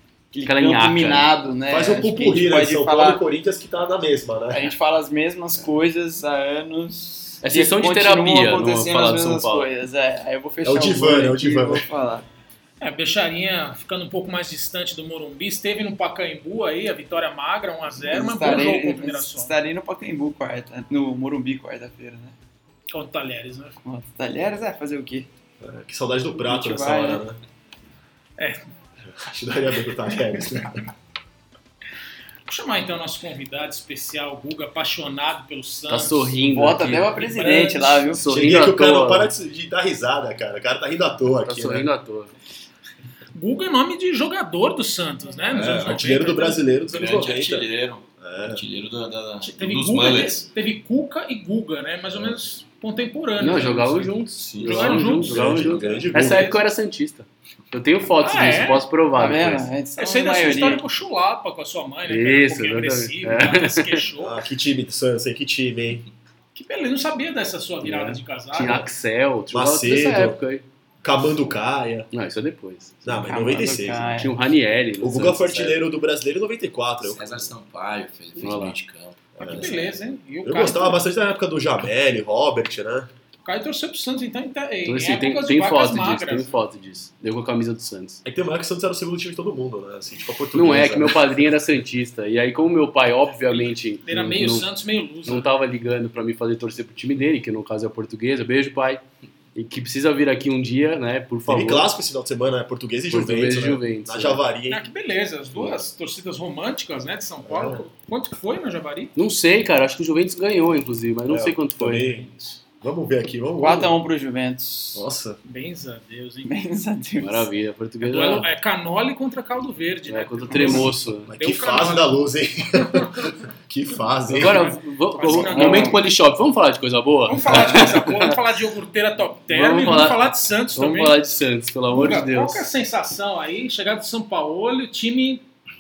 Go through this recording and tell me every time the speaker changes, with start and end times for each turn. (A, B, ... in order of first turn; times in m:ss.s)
0:00.3-0:03.2 A
0:00.4-0:01.3 B
0:01.7-0:04.7 C
0:04.5-0:12.3 A
0:07.4-0:09.7 B
0:10.6-0:11.9 C
0:12.8-0:19.5 D
0:18.0-0:22.4 A
0:22.9-0:23.8 D
0:23.8-0:25.3 A
0:25.6-0:27.4 C
0:26.4-0:27.2 A
0:28.4-0:28.7 D
0:29.2-0:30.8 C
0:32.4-0:36.4 D
0:35.9-0:37.3 B
0:36.5-0:38.3 A
0:37.2-0:38.1 D
0:38.1-0:39.3 B
0:38.3-0:41.9 C
0:41.4-0:42.3 B
0:43.3-0:46.6 D
0:45.5-0:48.6 C
0:46.9-0:50.5 E
0:49.4-0:55.5 D
0:53.4-0:59.7 B
0:54.4-0:56.2 E
0:54.7-0:56.6 C
0:56.2-0:56.5 D
0:58.2-0:58.9 D
0:59.1-1:00.8 A
1:00.0-1:04.4 D
1:02.1-1:04.1 B
1:04.2-1:06.0 C
1:06.5-1:08.9 D
1:07.8-1:10.6 B
1:09.5-1:10.4 C
1:11.0-1:12.1 C
1:12.1-1:13.4 B
1:13.0-1:14.2 C
1:13.3-1:14.4 A
1:14.0-1:15.8 B
1:15.0-1:17.5 C
1:17.0-1:19.9 E
1:18.4-1:18.8 B
1:19.4-1:19.8 C
1:19.4-1:21.1 D
1:20.4-1:23.1 C
1:23.4-1:26.6 D
1:24.8-1:28.2 B
1:28.2-1:31.5 C
1:30.5-1:34.7 B
1:33.5-1:35.5 D
1:35.2-1:39.0 B
1:39.5-1:41.9 B
1:41.4-1:44.8 C
1:43.1-1:44.4 B
1:44.7-1:49.1 D
1:47.4-1:47.8 C
1:49.2-1:52.2 B
1:51.3-1:53.9 C
1:53.6-1:55.0 A
1:54.9-1:55.4 C
1:55.4-1:56.5 D
1:56.4-1:57.5 A
1:57.2-1:58.5 B
1:58.0-2:02.2 D
2:00.1-2:01.3 B
2:01.2-2:04.8 C
2:02.8-2:03.3 D
2:04.3-2:08.4 B
2:04.3-2:06.0 D
2:05.2-2:06.0 A
2:07.2-2:11.2 D
2:09.5-2:12.7 B
2:11.9-2:15.4 D